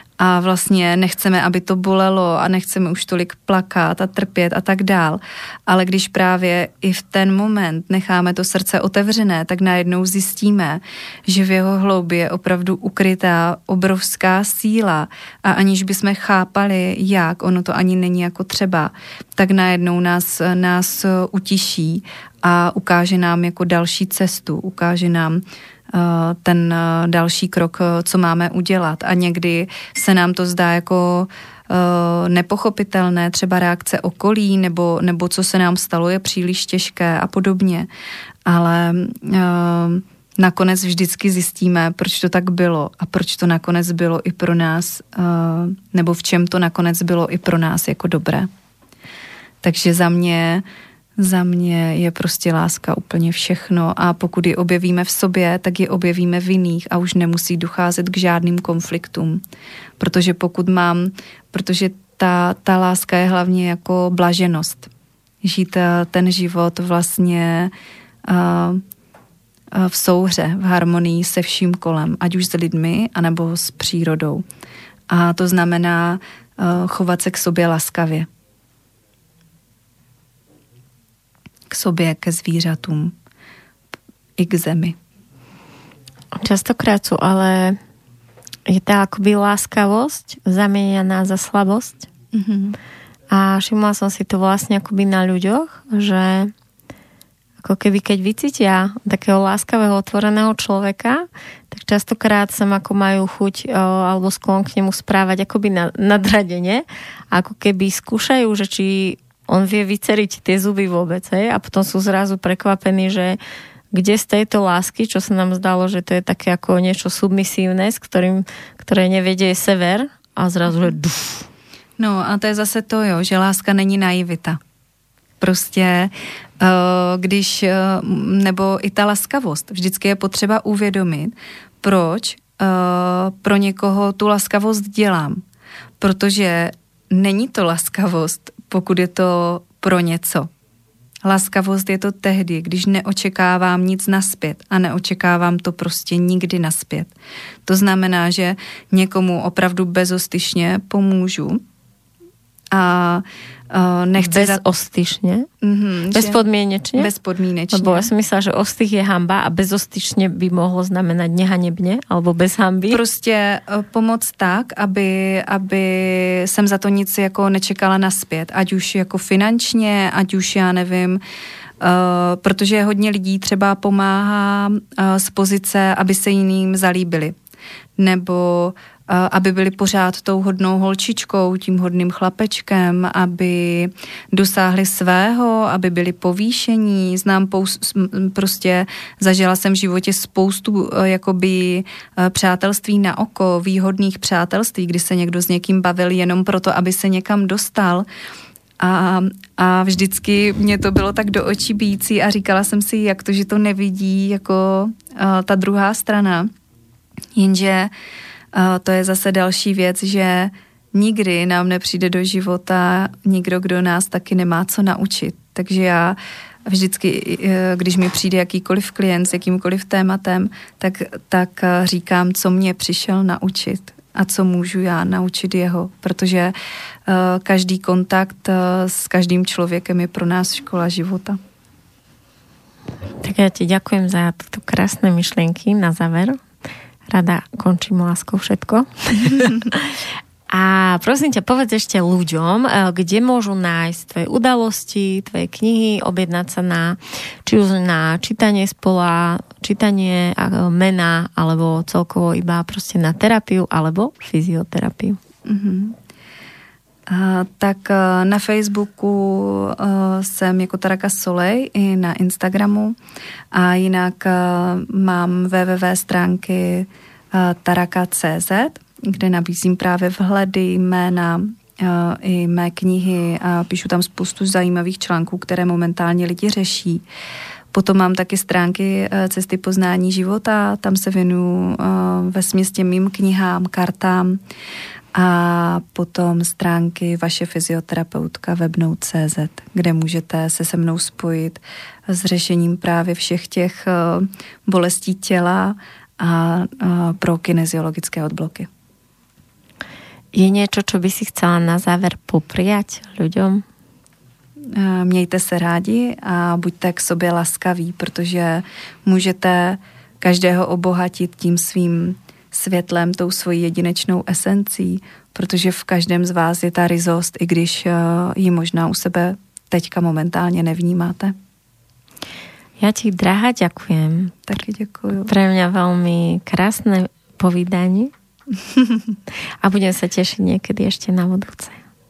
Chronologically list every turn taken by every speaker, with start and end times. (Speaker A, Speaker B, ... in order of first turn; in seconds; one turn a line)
Speaker A: 0.2-37.9
Speaker A: 38.5-48.5
Speaker A: 49.6-50.6
Speaker A: 51.2-59.4
Speaker A: 60.0-64.9
Speaker A: 65.4-67.7
Speaker A: 68.2-68.8
Speaker A: 69.7-74.4
Speaker A: 75.1-78.3
Speaker A: 81.7-83.1
Speaker A: 84.4-85.0
Speaker B: 86.3-87.8
Speaker B: 88.7-92.1
Speaker A: 92.3-92.8
Speaker B: 93.3-96.5
Speaker B: 97.6-113.4
Speaker B: 113.9-121.5
Speaker A: 122.0-124.6
Speaker A: 125.4-135.4
Speaker A: 136.0-140.5
Speaker A: 141.2-147.1
Speaker A: 147.7-151.6
Speaker A: 152.7-154.6
Speaker B: 154.2-155.5
Speaker A: 155.6-156.4
Speaker B: 156.1-157.1
Speaker A: 156.9-158.1
Speaker B: 157.7-163.0
Speaker A: 162.9-171.2
Speaker A: 171.8-177.3
Speaker A: 178.0-198.1
Speaker A: 198.8-206.5
Speaker A: 207.3-207.9
Speaker A: 208.5-226.5
Speaker A: 227.1-231.4
Speaker B: 233.2-236.4
Speaker B: 237.1-240.0
Speaker B: 240.5-255.2
Speaker A: 255.4-256.0
Speaker A: 257.1-262.9
Speaker A: 263.5-277.0
Speaker A: 277.7-284.4
Speaker A: 285.1-298.7
Speaker B: 300.3-303.6
Speaker A: 304.7-321.3
Speaker B: 322.8-324.4
Speaker A: 324.5-325.3
Speaker B: 325.3-328.1
Speaker A: 328.8-329.1
Speaker B: 329.6-331.8